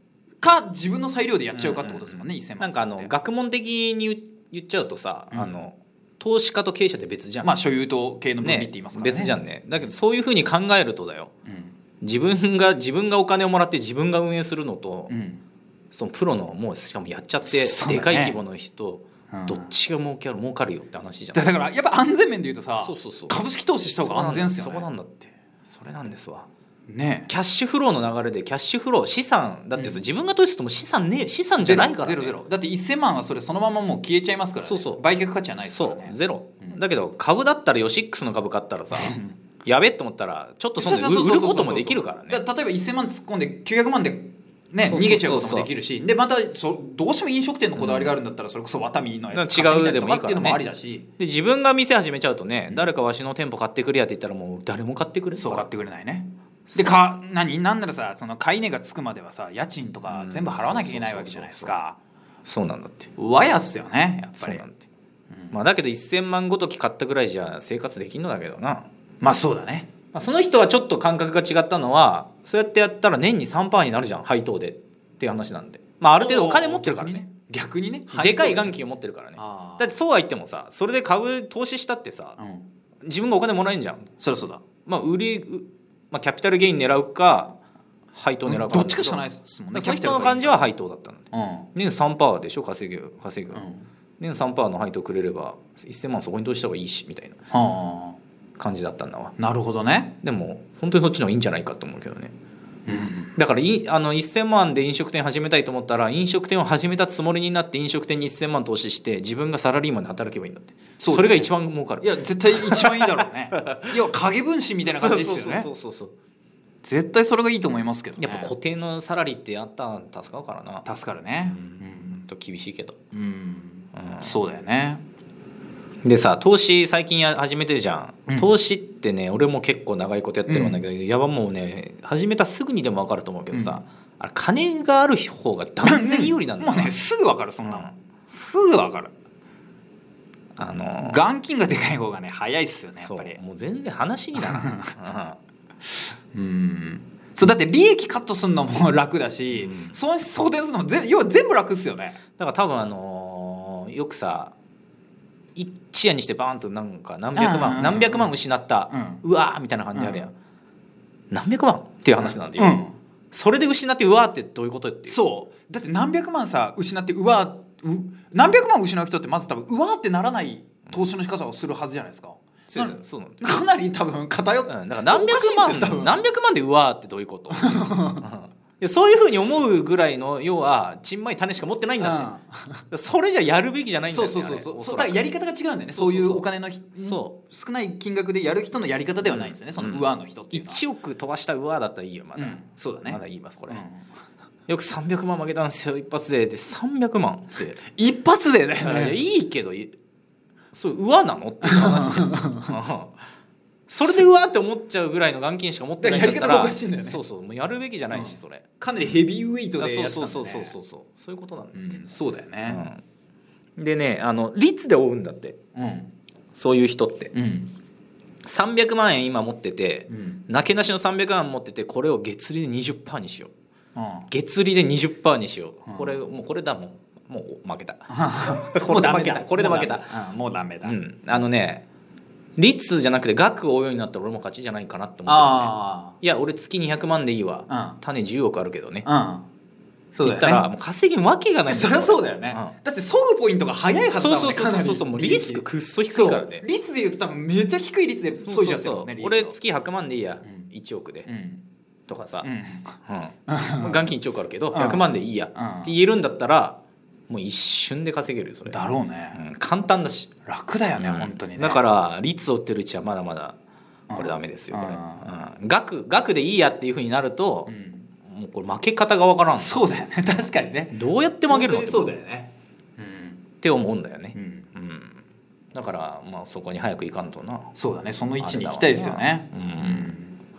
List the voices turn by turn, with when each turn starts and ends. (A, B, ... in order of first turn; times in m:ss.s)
0:00.4-0:03.1 A
0:01.6-0:07.5 B
0:05.3-0:05.6 A
0:07.4-0:09.4 A
0:08.4-0:11.3 B
0:11.5-0:11.8 A
0:12.0-0:15.1 B
0:15.1-0:15.4 A
0:15.9-0:21.5 B
0:17.5-0:18.4 A
0:19.3-0:19.7 A
0:21.3-0:24.9 A
0:22.8-0:23.4 B
0:24.0-0:26.5 B
0:26.9-0:27.3 A
0:27.3-0:32.4 B
0:29.8-0:30.0 A
0:31.6-0:36.8 A
0:34.6-0:35.0 B
0:35.7-0:42.4 B
0:39.0-0:39.4 A
0:40.8-0:51.1 A
0:44.8-0:45.7 B
0:47.8-0:48.2 B
0:49.3-0:50.6 B
0:51.2-0:55.6 B
0:55.4-1:02.0 A
1:00.1-1:01.7 B
1:02.4-1:03.1 B
1:03.2-1:04.6 A
1:04.4-1:04.8 B
1:05.5-1:08.9 B
1:09.2-1:09.9 A
1:10.1-1:17.3 B
1:16.2-1:18.8 A
1:18.1-1:22.4 B
1:19.4-1:19.9 A
1:22.4-1:22.7 A
1:23.0-1:24.1 B
1:24.2-1:24.6 A
1:24.9-1:27.6 B
1:28.1-1:33.6 B
1:28.5-1:30.7 A
1:31.3-1:31.7 A
1:33.5-1:33.8 A
1:34.2-1:37.4 B
1:37.5-1:38.2 A
1:38.6-1:39.4 B
1:39.4-1:40.2 A
1:40.2-1:42.3 B
1:42.9-1:43.3 A
1:43.4-1:54.0 B
1:51.0-1:55.7 A
1:54.8-1:56.1 B
1:56.8-1:58.5 A
1:58.2-2:00.9 B
2:00.8-2:02.2 A
2:01.5-2:03.0 B
2:03.1-2:05.0 A
2:04.0-2:04.3 B
2:06.0-2:17.0 B
2:08.3-2:08.5 A
2:10.5-2:10.8 A
2:13.5-2:13.8 A
2:15.8-2:19.1 A
2:17.6-2:17.9 B
2:20.6-2:21.2 B
2:21.0-2:23.4 A
2:23.0-2:25.4 B
2:24.4-2:24.9 A
2:26.3-2:32.2 A
2:29.5-2:30.0 B
2:32.4-2:34.6 B
2:35.6-2:40.3 B
2:37.4-2:38.4 A
2:38.9-2:39.2 A
2:40.0-2:40.3 A
2:41.3-2:45.2 B
2:42.2-2:43.0 A
2:45.1-2:56.2 A
2:52.7-2:53.5 B
2:54.7-3:02.3 B
2:57.5-2:58.2 A
3:02.0-3:02.8 A
3:02.9-3:05.3 B
3:04.1-3:10.8 A
3:05.9-3:07.4 B
3:09.2-3:13.8 B
3:12.4-3:14.0 A
3:14.7-3:17.8 B
3:17.9-3:19.2 A
3:18.8-3:19.9 B
3:20.7-3:23.2 B
3:21.6-3:22.7 A
3:23.9-3:29.2 B
3:26.0-3:27.2 A
3:28.1-3:30.8 A
3:29.8-3:32.1 B
3:31.7-3:32.8 A
3:32.7-3:33.0 B
3:33.8-3:35.6 B
3:35.8-3:36.1 A
3:36.5-3:37.3 B
3:37.3-3:37.7 A
3:38.4-3:43.5 B
3:40.1-3:40.4 A
3:44.0-3:44.3 A
3:44.3-3:50.2 B
3:45.9-3:46.2 A
3:48.1-3:51.0 A
3:50.8-3:51.8 B
3:52.6-3:59.1 B
3:55.3-3:56.2 A
3:57.7-3:58.0 A
3:59.0-3:59.5 A
4:00.2-4:02.7 B
4:00.2-4:00.7 A
4:01.7-4:09.6 A
4:04.1-4:06.7 B
4:08.4-4:11.3 B
4:11.3-4:11.6 A
4:12.1-4:12.5 B
4:12.4-4:14.1 A
4:13.1-4:18.8 B
4:14.7-4:15.9 A
4:18.7-4:19.4 A
4:19.4-4:20.3 B
4:20.5-4:21.8 A
4:21.0-4:23.6 B
4:24.1-4:25.3 A
4:24.2-4:27.7 B
4:27.7-4:28.1 A
4:28.3-4:29.7 B
4:29.6-4:31.0 A
4:30.9-4:32.1 B
4:31.5-4:33.4 A
4:33.6-4:35.2 B
4:34.4-4:34.7 A
4:35.7-4:37.7 B
4:37.8-4:40.4 A
4:38.4-4:40.1 B